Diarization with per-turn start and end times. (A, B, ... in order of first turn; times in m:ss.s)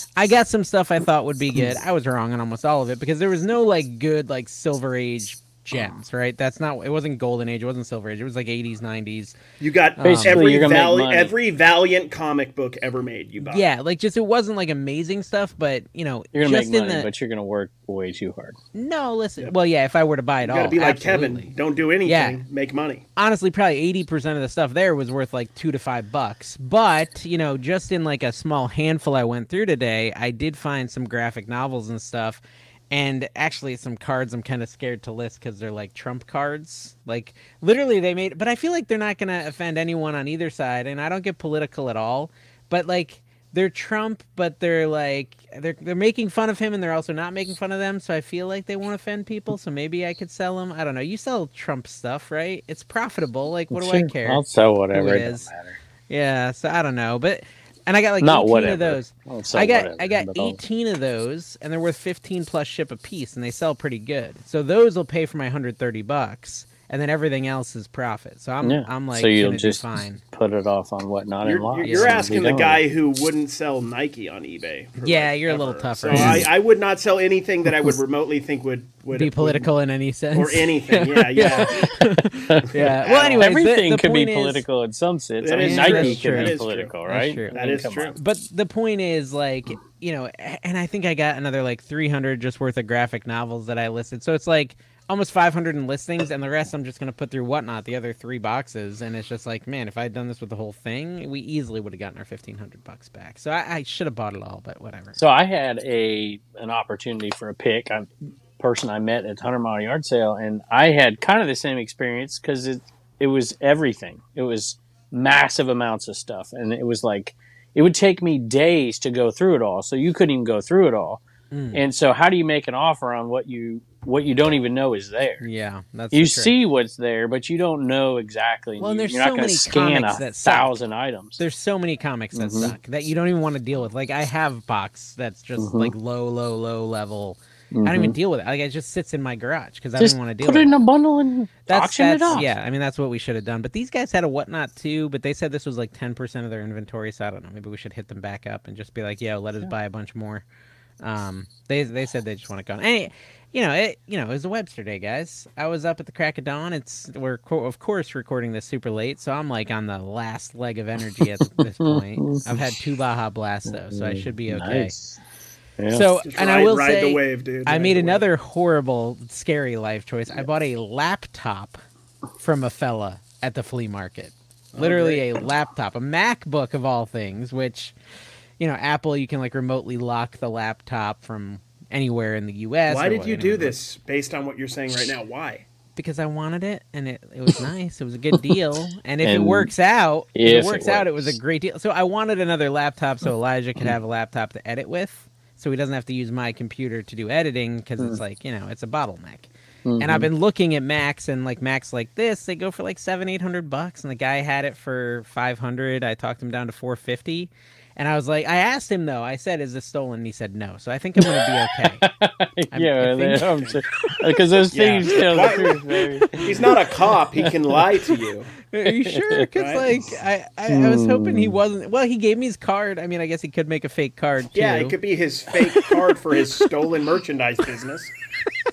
0:00.2-0:09.4 A
0:09.6-0:13.6 B
0:10.0-0:10.5 A
0:10.0-0:11.3 C
0:13.4-0:17.1 A
0:16.3-0:18.6 C
0:18.7-0:21.5 A
0:20.4-0:23.0 B
0:22.0-0:22.4 A
0:23.2-0:55.5 A
0:53.7-0:55.8 C
0:56.1-1:10.2 A
0:58.2-1:00.6 C
1:08.6-1:12.8 C
1:11.4-1:19.7 B
1:11.8-1:12.2 A
1:15.0-1:16.5 A
1:16.1-1:16.5 C
1:19.1-1:24.6 A
1:20.3-1:21.9 B
1:22.5-1:28.2 C
1:22.8-1:23.5 B
1:25.4-1:26.9 B
1:25.6-1:27.5 A
1:27.5-1:28.2 B
1:28.2-1:45.2 A
1:45.2-2:01.2 C
2:01.5-2:01.8 A
2:01.7-2:05.4 C
2:05.4-2:06.5 A
2:06.1-2:11.4 C
2:08.8-2:10.8 A
2:11.4-2:20.7 A
2:12.3-2:12.7 C
2:15.6-2:15.9 C
2:17.7-2:18.2 C
2:20.0-2:22.5 C
2:21.7-2:30.4 A
2:31.0-2:44.9 A
2:41.8-2:42.6 C
2:43.7-2:45.2 C
2:45.8-2:46.0 C
2:45.9-2:51.8 A
2:46.2-2:48.2 B
2:52.4-2:57.9 A
2:54.7-2:55.2 B
2:58.6-3:03.8 A
3:02.9-3:05.6 B
3:06.0-3:32.0 A
3:09.2-3:09.7 C
3:10.3-3:11.4 C
3:19.8-3:20.3 C
3:31.2-3:37.8 C
3:32.7-3:33.6 A
3:33.5-3:33.8 B
3:34.7-3:35.8 B
3:35.9-3:36.7 A
3:36.3-3:38.5 B
3:38.7-3:45.0 A
3:38.8-3:39.5 C
3:39.6-3:40.0 B
3:40.7-3:41.6 C
3:44.5-3:48.1 B